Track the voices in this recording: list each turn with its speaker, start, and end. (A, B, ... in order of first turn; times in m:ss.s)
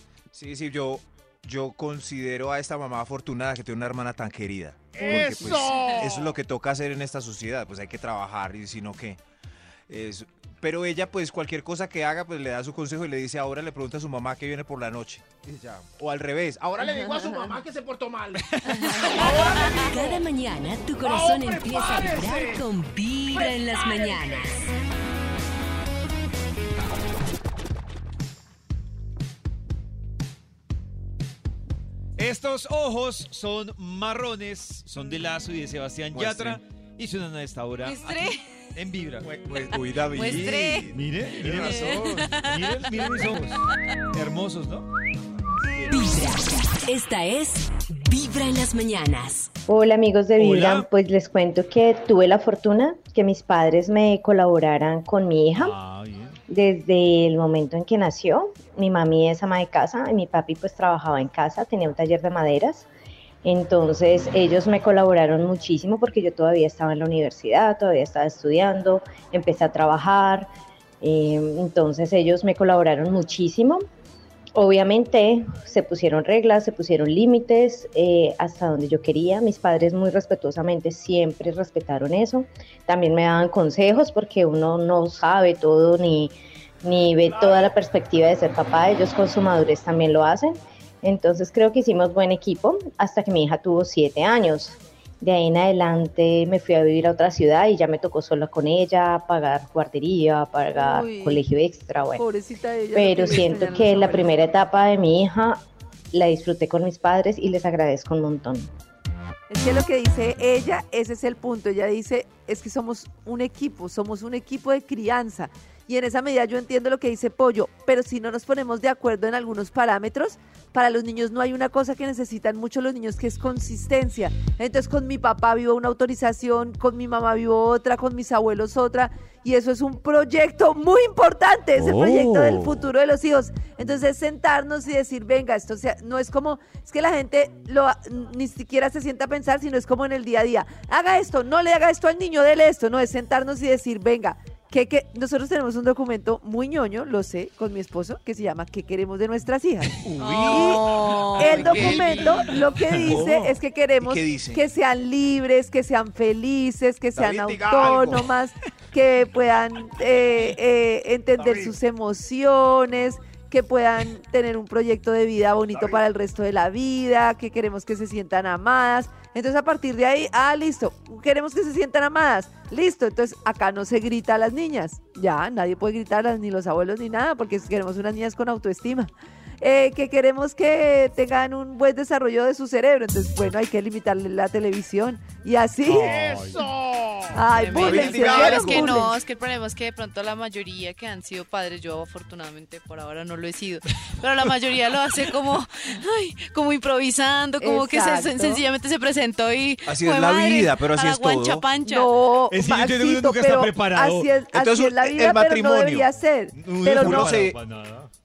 0:00.3-0:09.2 A
0:04.9-0:06.4 B
0:09.9-0:16.6 A
0:16.6-0:18.5 B
0:19.0-0:20.2 B
0:19.8-0:24.7 C
0:21.0-0:22.6 B
0:32.2-0:39.4 D
0:36.1-0:36.6 A
0:37.8-0:38.4 E
0:39.2-0:42.2 A
0:40.0-0:40.9 E
0:40.9-0:43.6 D
0:41.6-0:42.5 E
0:44.1-0:44.9 D
0:45.9-0:49.5 C
0:49.7-0:55.8 F
0:50.4-0:50.9 D
0:55.6-0:56.4 D
0:56.5-1:02.9 F
1:03.4-1:10.5 F
1:11.0-1:13.8 F
1:14.6-1:42.2 F
1:27.2-1:27.7 B
1:40.7-1:41.4 G
1:42.2-1:44.5 G
1:42.9-1:48.7 F
1:49.5-2:30.0 G
2:30.0-2:32.4 A
2:30.2-2:32.3 E
2:30.5-2:30.8 G
2:31.4-3:06.4 G
2:32.8-2:33.3 D
2:33.0-2:34.6 A
2:37.2-2:38.3 B
2:41.4-2:41.8 B
2:45.7-2:46.0 B
3:05.8-3:06.6 D
3:06.0-3:08.6 B
3:07.4-3:09.2 G
3:07.6-3:22.1 E
3:07.7-3:09.0 A
3:17.6-3:18.6 G
3:19.9-3:21.7 A
3:21.8-3:27.5 G
3:22.5-3:24.3 D
3:24.5-3:26.1 A
3:26.6-3:28.1 D
3:26.8-3:27.6 A